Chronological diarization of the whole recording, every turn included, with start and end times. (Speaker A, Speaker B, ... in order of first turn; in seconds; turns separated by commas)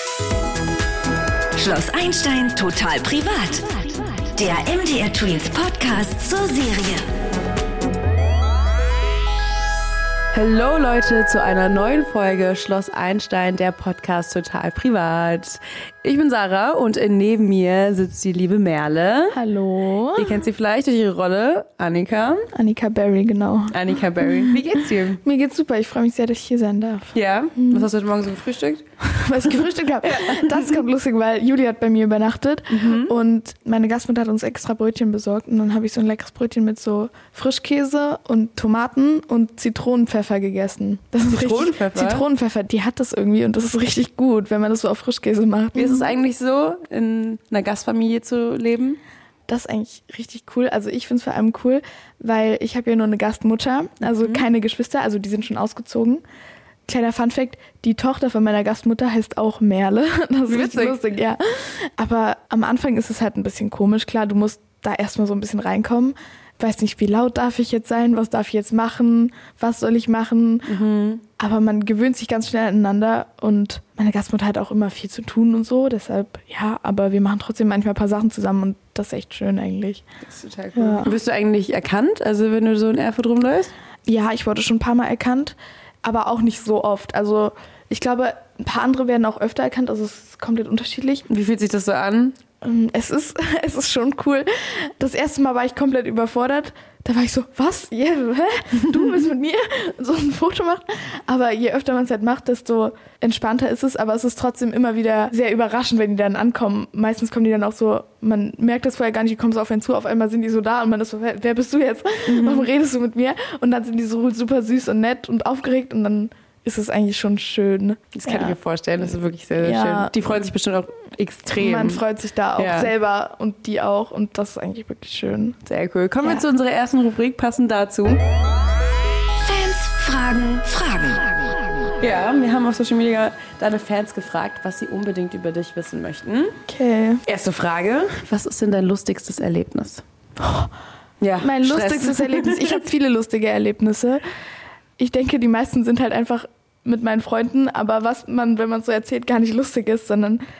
Speaker A: 1.6-3.8, Speaker A: 4.3-7.1, Speaker B: 10.3-19.4, Speaker C: 19.3-20.4, Speaker B: 20.1-22.5, Speaker C: 22.5-27.9, Speaker B: 23.7-25.2, Speaker B: 27.1-28.8, Speaker C: 29.0-46.1, Speaker B: 30.1-30.5, Speaker B: 32.7-33.1, Speaker B: 41.2-42.2, Speaker B: 45.7-49.0, Speaker C: 49.5-56.2, Speaker B: 54.0-54.4, Speaker C: 56.9-70.8, Speaker B: 60.5-61.0, Speaker B: 70.7-71.2, Speaker C: 71.4-80.0, Speaker B: 80.2-83.7, Speaker C: 80.7-81.2, Speaker C: 84.0-91.2, Speaker B: 91.3-92.4, Speaker C: 92.6-118.6, Speaker B: 112.3-112.7, Speaker B: 118.1-122.0, Speaker C: 119.6-120.1, Speaker C: 121.5-125.6, Speaker B: 122.6-122.9, Speaker B: 125.6-128.2, Speaker A: 129.4-131.6, Speaker B: 132.0-136.6, Speaker C: 136.7-137.2, Speaker B: 137.2-140.0, Speaker C: 140.4-140.7, Speaker B: 141.2-142.8, Speaker C: 141.4-144.2, Speaker C: 145.0-150.4